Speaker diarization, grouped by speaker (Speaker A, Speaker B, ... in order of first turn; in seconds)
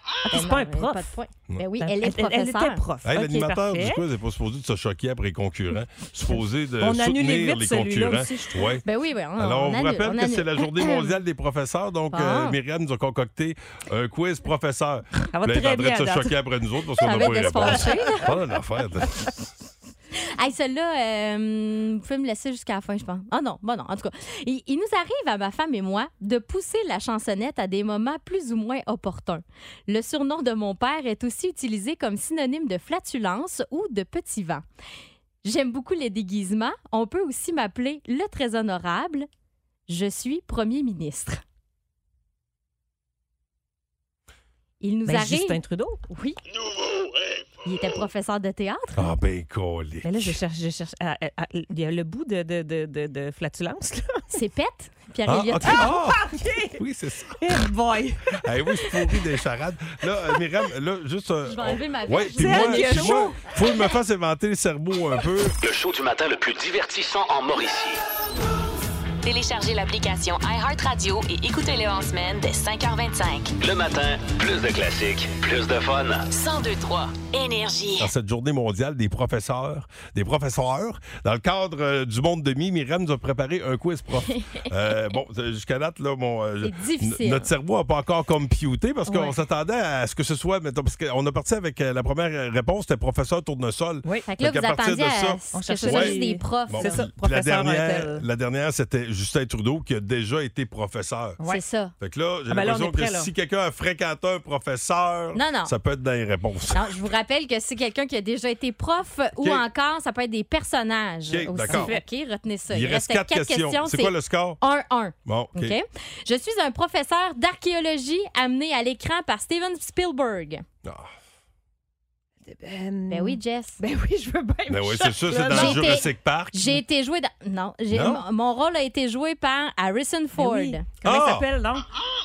Speaker A: 0.2-1.2, 1.8-4.0, 6.3-8.7, 15.3-16.3, 17.0-18.3, 45.0-46.0, 50.0-54.3, 55.6-56.8, 57.4-59.2, 62.2-63.8, 95.5-98.2, 102.5-103.3, 111.7-112.0, 122.4-126.1, 130.3-131.8
Speaker B: 0.3-2.8, 8.8-11.1, 12.1-12.6, 17.0-18.3, 20.1-34.6, 35.4-39.3, 39.9-41.4, 44.8-46.4, 47.6-49.0, 54.3-55.9, 61.5-63.4, 84.3-84.7, 86.6-87.5, 89.0-89.4, 94.2-97.0, 101.4-101.9, 105.3-105.7, 106.7-120.6, 123.1-123.8, 125.5-130.8
Speaker C: 3.0-8.8, 9.4-19.2, 49.0-50.4, 55.2-57.4, 58.4-65.5, 78.0-96.2, 96.7-101.4, 102.0-106.8, 109.4-109.6, 111.3-111.9, 112.7-114.6, 115.2-115.8, 124.7-126.8, 127.9-128.2, 131.0-131.5
Speaker D: 65.6-68.0, 73.6-76.3
Speaker E: 69.2-73.5, 76.3-78.1